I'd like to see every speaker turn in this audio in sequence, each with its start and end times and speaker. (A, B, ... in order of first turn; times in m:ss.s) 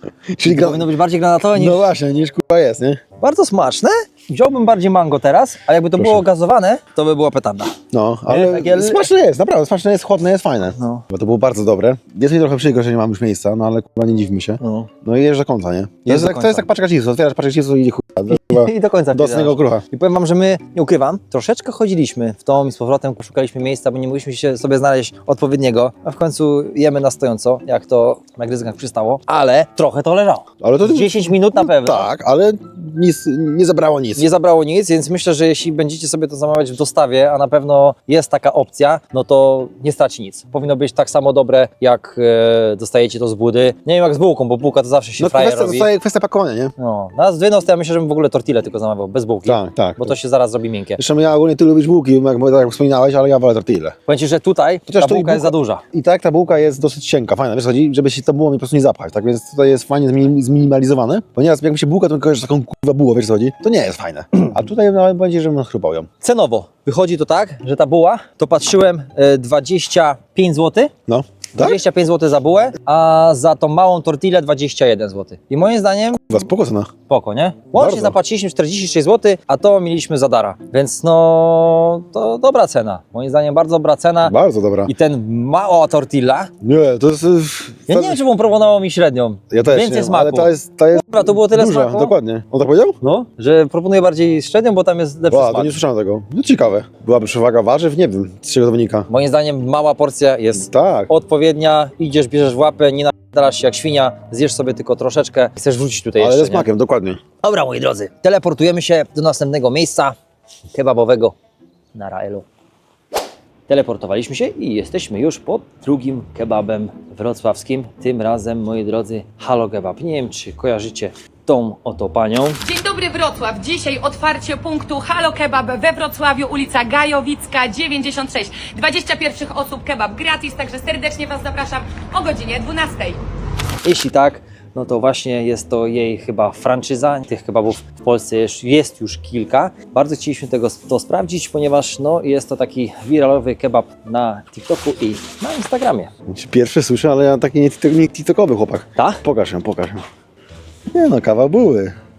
0:00.4-0:00.8 A
0:00.4-0:01.8 B
0:01.5-0:03.0 A
0:03.2-0:07.8 B
0:06.0-0:06.2 A
0:07.9-0:19.8 A
0:08.3-0:09.1 B
0:10.8-0:11.0 B
0:14.6-0:14.9 B
0:16.1-0:16.7 B
0:18.3-0:32.1 B
0:30.6-0:34.2 A
0:34.2-0:45.9 B
0:45.2-0:46.7 A
0:46.8-0:51.0 B
0:49.4-0:50.2 A
0:51.0-0:54.0 A
0:54.1-0:55.8 B
0:54.9-1:06.1 A
1:06.2-1:10.9 B
1:11.1-1:11.8 A
1:11.6-1:16.4 B
1:16.3-1:16.9 A
1:17.1-1:24.3 B
1:17.8-1:18.2 A
1:24.2-1:24.9 A
1:24.9-1:26.5 B
1:26.6-1:28.2 A
1:27.9-1:32.2 B
1:29.5-1:33.0 A
1:33.0-1:35.8 B
1:35.3-1:39.1 A
1:39.1-1:46.7 B
1:40.6-1:41.1 A
1:46.2-1:47.2 A
1:47.4-1:50.2 B
1:50.7-1:51.4 B
1:51.9-1:52.5 B
1:53.7-2:02.6 B
2:02.6-2:13.2 C
2:13.8-2:26.1 B
2:26.3-2:30.0 A
2:29.0-2:29.2 B
2:30.9-2:32.0 A